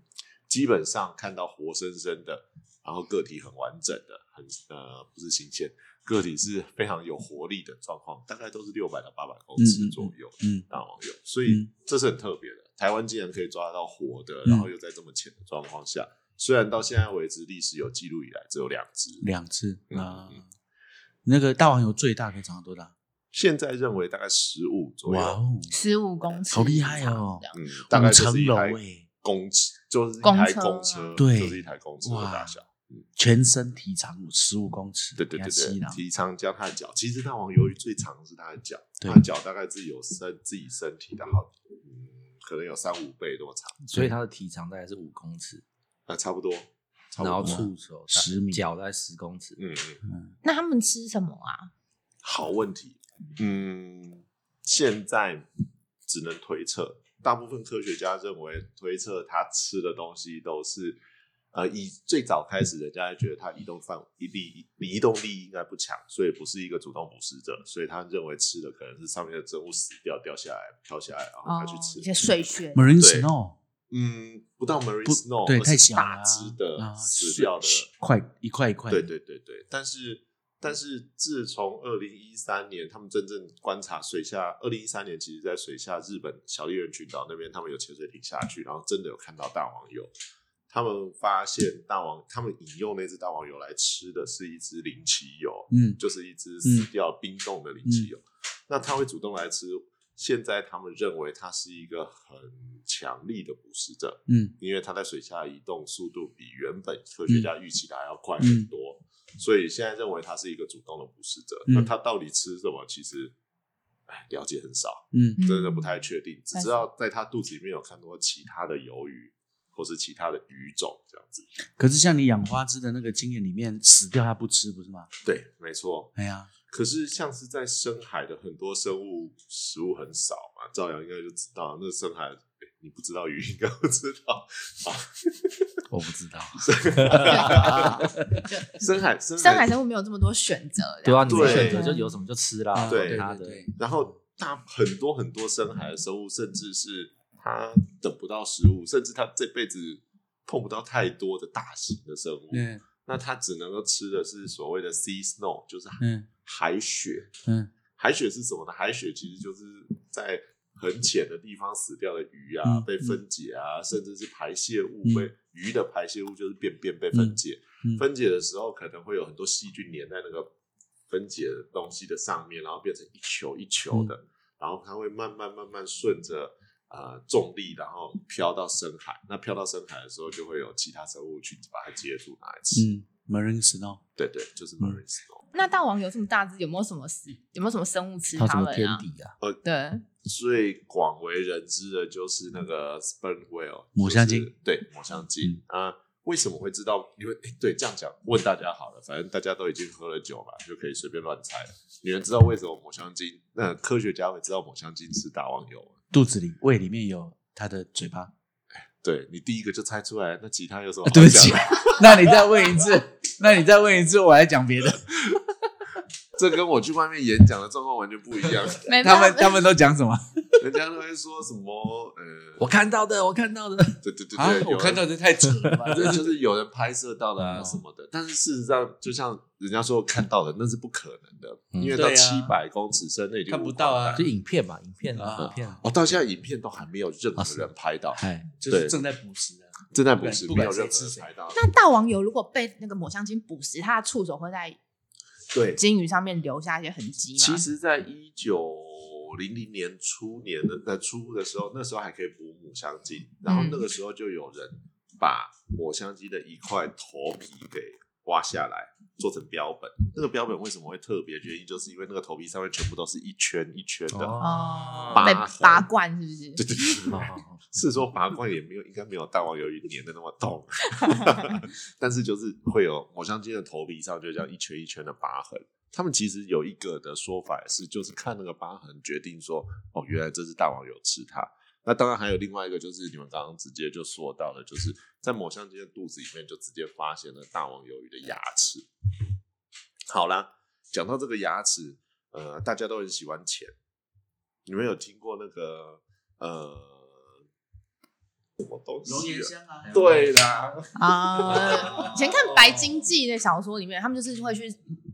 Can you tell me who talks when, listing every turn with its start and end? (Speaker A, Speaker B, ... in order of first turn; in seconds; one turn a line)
Speaker A: 0.5-19.3
Speaker B: 9.6-10.7
Speaker B: 19.2-20.5
Speaker A: 19.9-20.4
Speaker B: 21.2-22.9
Speaker A: 23.3-25.4
Speaker B: 25.1-25.7
Speaker C: 25.7-27.6
Speaker B: 26.5-29.1
Speaker A: 27.5-33.0
Speaker C: 30.2-31.2
Speaker B: 31.2-32.6
Speaker B: 33.2-36.0
Speaker A: 35.2-43.8
Speaker D: 43.8-45.6
Speaker A: 46.1-47.7
Speaker D: 47.2-49.6
Speaker B: 47.4-48.6
Speaker A: 49.6-50.0
Speaker B: 50.1-50.3
Speaker C: 50.4-51.7
Speaker A: 52.2-55.5
Speaker A: 56.1-61.0
Speaker A: 61.5-72.1
Speaker C: 71.5-72.9
Speaker B: 72.8-73.6
Speaker A: 73.0-73.3
Speaker A: 73.9-77.9
Speaker B: 75.0-79.1
Speaker A: 78.9-90.1
Speaker A: 90.7-113.3
Speaker B: 95.7-96.0
Speaker B: 96.6-96.9
Speaker B: 104.3-104.5
Speaker B: 108.4-108.7
Speaker B: 111.7-111.9
Speaker A: 114.1-121.5
Speaker B: 115.1-115.4
Speaker C: 115.4-116.0
Speaker C: 116.5-116.8
Speaker B: 121.8-125.1
Speaker A: 125.2-126.1
Speaker B: 126.2-126.5
Speaker A: 126.7-135.6
Speaker D: 135.9-138.1
Speaker A: 136.7-138.1
Speaker C: 137.3-137.9
Speaker A: 138.7-139.7
Speaker C: 139.4-142.1
Speaker D: 141.0-143.6
Speaker A: 141.3-141.9
Speaker B: 142.7-144.1
Speaker A: 142.9-143.2
Speaker A: 143.8-157.3
Speaker B: 152.5-152.8
Speaker B: 156.0-156.3
Speaker A: 158.0-170.5
Speaker B: 162.6-163.2
Speaker B: 165.0-165.3
Speaker B: 167.1-168.0
Speaker A: 171.1-182.9
Speaker B: 182.8-184.0
Speaker A: 184.2-185.4
Speaker C: 185.5-189.0
Speaker D: 188.4-189.3
Speaker C: 189.6-190.1
Speaker A: 190.2-206.0
Speaker B: 194.0-194.5
Speaker B: 206.1-208.3
Speaker A: 208.8-212.6
Speaker B: 211.1-215.2
Speaker A: 216.3-218.9
Speaker C: 218.8-219.7
Speaker B: 219.0-220.7
Speaker A: 220.6-222.7
Speaker D: 222.6-224.0
Speaker A: 224.0-225.1
Speaker B: 224.3-226.4
Speaker A: 225.9-234.3
Speaker D: 227.4-227.7
Speaker D: 231.7-232.0
Speaker B: 231.9-232.6
Speaker B: 233.5-234.3
Speaker D: 234.2-235.8
Speaker B: 235.2-235.8
Speaker A: 235.4-239.0
Speaker D: 237.4-238.5
Speaker B: 238.6-241.3
Speaker A: 239.9-241.6
Speaker C: 241.5-244.8
Speaker A: 245.5-245.8
Speaker C: 245.8-247.7
Speaker A: 247.4-264.4
Speaker C: 253.5-253.9
Speaker D: 264.1-265.4
Speaker C: 264.4-266.9
Speaker A: 265.1-265.9
Speaker A: 266.6-288.9
Speaker D: 267.1-267.6
Speaker A: 290.1-293.7
Speaker A: 294.6-297.2
Speaker A: 298.6-302.2
Speaker B: 299.1-300.3
Speaker C: 301.0-304.8